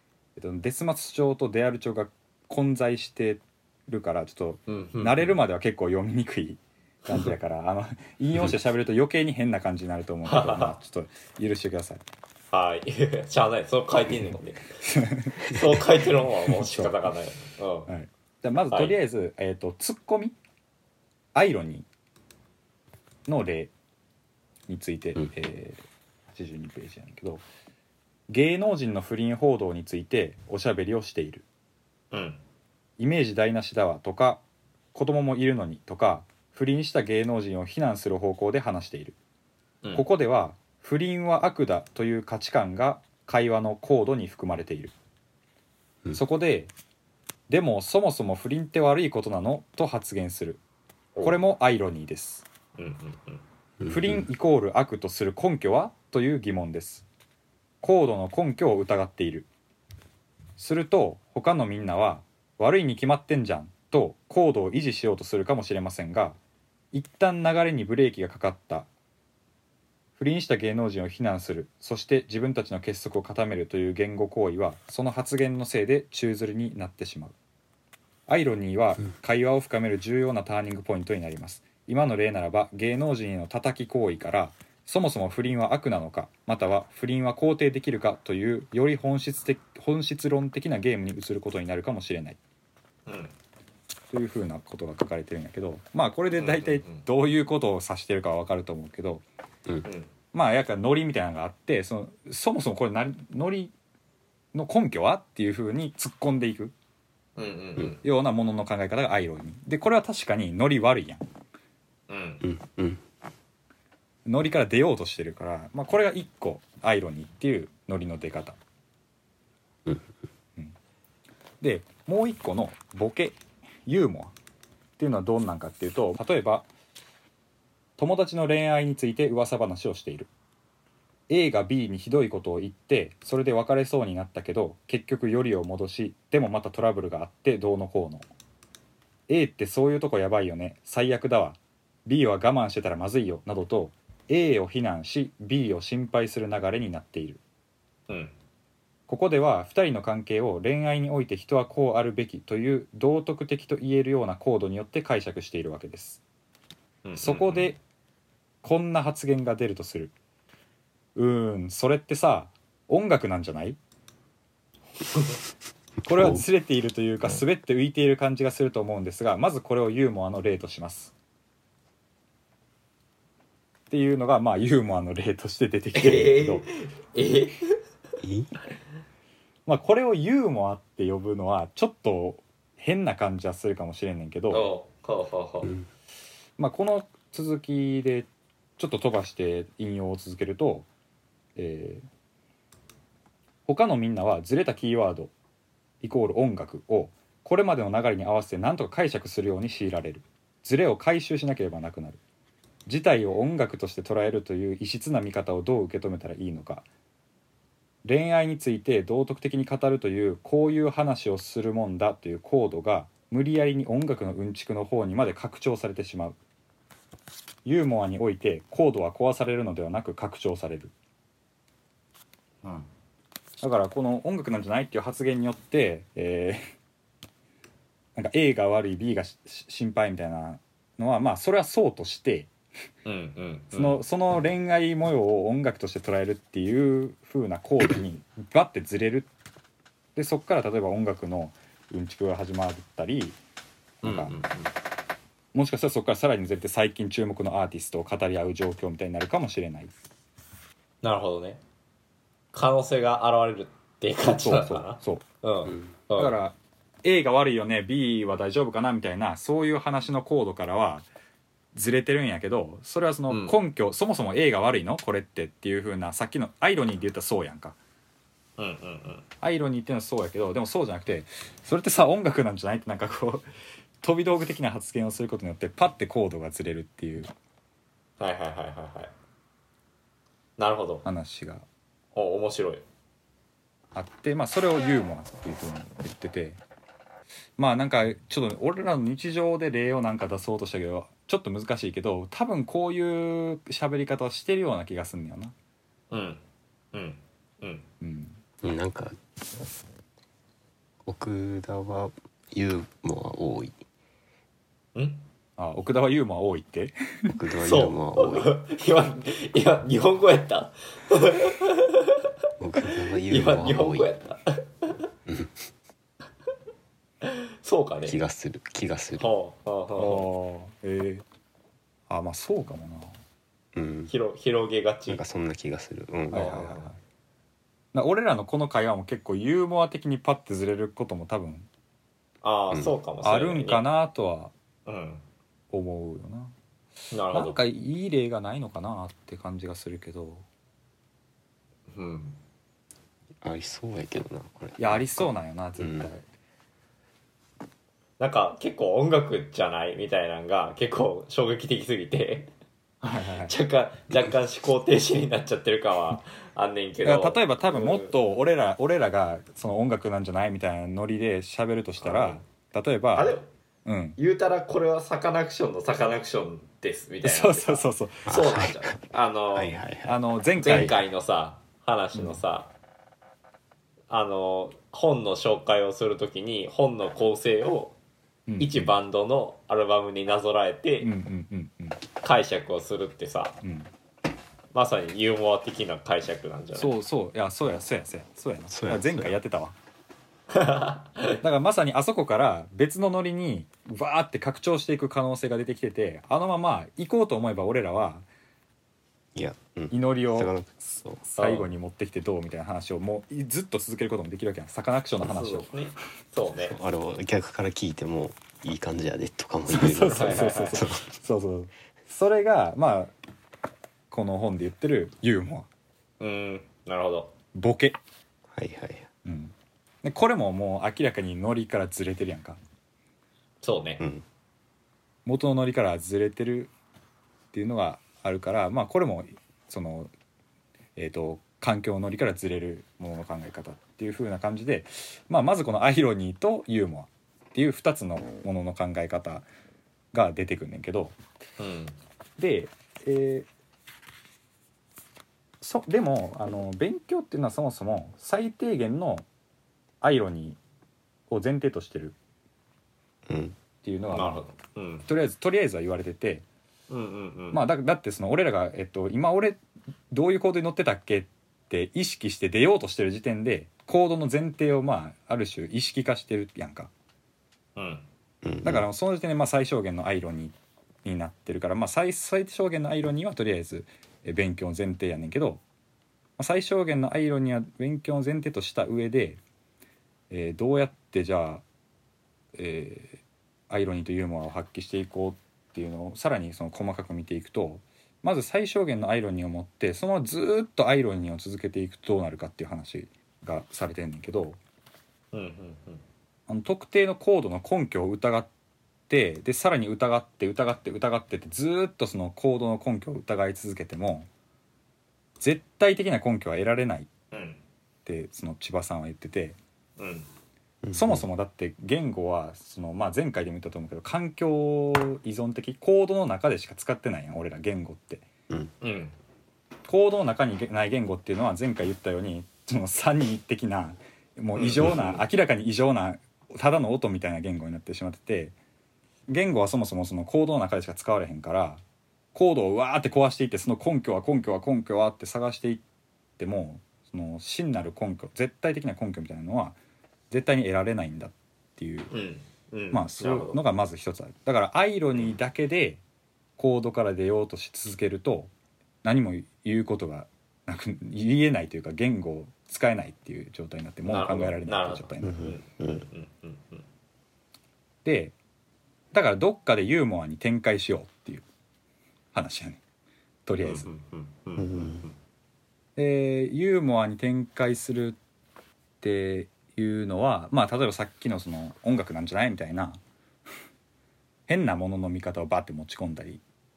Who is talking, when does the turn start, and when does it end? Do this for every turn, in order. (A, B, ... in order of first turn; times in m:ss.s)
0:00.4-0:12.0 A
0:04.7-0:05.4 B
0:10.3-0:10.8 B
0:12.5-0:14.8 B
0:14.8-0:15.4 A
0:15.4-0:17.9 B
0:16.6-0:16.9 A
0:17.9-0:20.4 A
0:21.3-0:21.9 A
0:23.3-0:23.7 A
0:24.7-0:27.4 A
0:28.3-0:31.5 A
0:32.1-0:32.4 B
0:33.0-0:34.4 A
0:34.9-0:39.2 A
0:40.0-0:44.9 A
0:46.1-0:46.7 A
0:47.5-0:50.6 A
0:51.2-0:52.5 A
0:52.8-0:53.4 B
0:53.8-0:54.2 C
0:53.9-0:57.1 A
0:57.8-0:59.5 A
1:00.6-1:06.4 A
1:06.9-1:08.9 A
1:10.2-1:17.4 A
1:18.3-1:32.4 A
1:33.1-1:33.3 B
1:34.1-1:39.2 A
1:36.4-1:37.0 B
1:40.3-1:43.7 A
1:44.5-1:46.7 A
1:47.4-1:48.0 B
1:48.0-1:51.2 A
1:52.1-1:52.4 B
1:52.4-1:53.0 C
1:54.3-1:58.6 A
1:59.8-2:00.1 C
2:01.6-2:04.4 A
2:05.0-2:06.7 A
2:08.0-2:10.3 A
2:11.3-2:18.3 A
2:19.3-2:27.4 A
2:29.1-2:36.2 A
2:37.0-2:37.7 B
2:37.2-2:37.8 A
2:38.6-2:40.1 A
2:41.2-2:43.8 A
2:46.0-2:51.1 A
2:46.1-2:46.4 C
2:53.9-2:56.7 A
2:56.0-2:57.8 B
2:58.2-2:58.6 C
2:59.7-3:04.7 A
3:04.5-3:05.7 B
3:05.6-3:05.9 C
3:06.6-3:10.9 A
3:11.6-3:12.0 A
3:13.7-3:15.3 A
3:16.0-3:22.2 A
3:22.9-3:26.9 A
3:28.0-3:36.4 A
3:37.6-3:40.9 A
3:43.6-3:46.7 A
3:48.2-3:52.5 A
3:53.0-3:54.0 B
3:53.7-3:59.3 A
4:00.2-4:03.4 A
4:04.0-4:04.3 A
4:04.0-4:04.7 B
4:05.5-4:09.9 A
4:11.0-4:11.6 B
4:12.5-4:16.4 B
4:14.2-4:15.2 A
4:16.2-4:21.1 A
4:21.7-4:27.8 A
4:23.3-4:23.6 B
4:28.6-4:29.3 B
4:29.4-4:33.4 A
4:34.0-4:37.3 A
4:38.2-4:39.1 B
4:40.6-4:41.1 B
4:41.0-4:41.7 A
4:42.2-4:42.8 B
4:44.0-4:46.6 A
4:47.6-4:55.5 A
4:56.1-4:56.4 B
4:56.9-4:57.8 B
4:58.0-4:58.4 A
4:58.6-4:59.2 C
5:01.0-5:03.8 C
5:05.0-5:05.2 B
5:05.6-5:07.3 A
5:07.3-5:08.5 C
5:07.6-5:12.3 B
5:12.6-5:14.1 C
5:12.9-5:15.0 B
5:15.3-5:15.7 C
5:17.2-5:18.2 B
5:18.0-5:19.3 C
5:19.2-5:20.3 B
5:20.0-5:21.2 A
5:22.1-5:23.2 A
5:23.8-5:24.1 C
5:24.1-5:25.2 B
5:25.1-5:26.5 C
5:26.3-5:27.0 A
5:26.3-5:26.9 B
5:27.9-5:31.7 A
5:32.4-5:33.8 B
5:33.2-5:34.5 A
5:34.9-5:35.2 B
5:35.7-5:36.5 A
5:37.1-5:37.6 B
5:37.3-5:40.4 A
5:41.9-5:42.4 B
5:43.4-5:45.3 C
5:44.8-5:46.2 A
5:45.8-5:46.1 C
5:48.2-5:52.5 B
5:53.0-5:53.6 A
5:53.4-5:58.2 B
5:57.0-6:04.2 A
6:02.0-6:02.4 B
6:03.2-6:03.5 B
6:04.2-6:09.8 B
6:07.2-6:08.3 A
6:08.3-6:09.0 C
6:09.5-6:10.2 C
6:10.0-6:11.0 A
6:10.6-6:12.7 B
6:12.1-6:12.4 A
6:14.1-6:18.0 B
6:18.5-6:18.9 A
6:18.6-6:21.1 B
6:21.0-6:22.0 A
6:22.2-6:23.6 B
6:23.6-6:23.9 A
6:24.7-6:27.0 B
6:26.8-6:29.8 A
6:28.7-6:29.4 C
6:30.5-6:31.4 B
6:31.4-6:38.3 A
6:39.4-6:41.2 C
6:39.9-6:45.8 A
6:41.4-6:41.7 B
6:45.2-6:46.8 B
6:46.5-6:51.1 C
6:49.7-6:53.1 A
6:50.1-6:50.8 B
6:54.1-6:55.7 A
6:56.2-6:57.3 B
6:57.5-6:58.0 A
6:58.5-6:59.1 C
6:59.2-7:02.6 A
7:03.6-7:04.0 B
7:05.3-7:06.7 A
7:07.5-7:10.1 A
7:11.0-7:19.5 A
7:20.1-7:21.2 A
7:21.6-7:22.0 B
7:22.4-7:23.5 A
7:25.6-7:29.3 A
7:30.0-7:30.6 A
7:31.3-7:32.2 A
7:33.3-7:33.6 C
7:33.8-7:34.4 A
7:34.1-7:35.1 B
7:35.1-7:36.4 A
7:36.9-7:37.6 B
7:37.5-7:39.6 A
7:40.1-7:46.9 A
7:47.8-7:48.1 B
7:48.4-7:48.8 C
7:48.6-7:55.6 A
7:56.4-7:59.4 A
8:00.3-8:01.6 A
8:02.6-8:14.6 A
8:15.3-8:16.0 B
8:16.5-8:18.5 A
8:19.1-8:24.3 A
8:25.4-8:27.1 A
8:27.3-8:27.6 B
8:28.1-8:29.6 A
8:30.0-8:30.3 B
8:30.8-8:31.2 C
8:30.9-8:38.3 A
8:38.8-8:39.2 B
8:39.9-8:48.6 A
8:44.6-8:45.2 B
8:49.3-8:51.8 A
8:52.3-8:55.8 A
8:56.4-8:59.8 A
9:00.3-9:02.1 A
9:02.1-9:03.6 B
9:02.9-9:06.0 A
9:06.6-9:08.5 A
9:09.0-9:15.5 A
9:14.0-9:16.8 B
9:15.2-9:16.0 C
9:18.0-9:18.4 A
9:19.1-9:21.4 A
9:22.3-9:22.8 A
9:23.5-9:23.9 A
9:23.6-9:25.2 B
9:24.6-9:25.1 C
9:26.0-9:28.2 A
9:29.0-9:33.0 A
9:34.5-9:36.4 A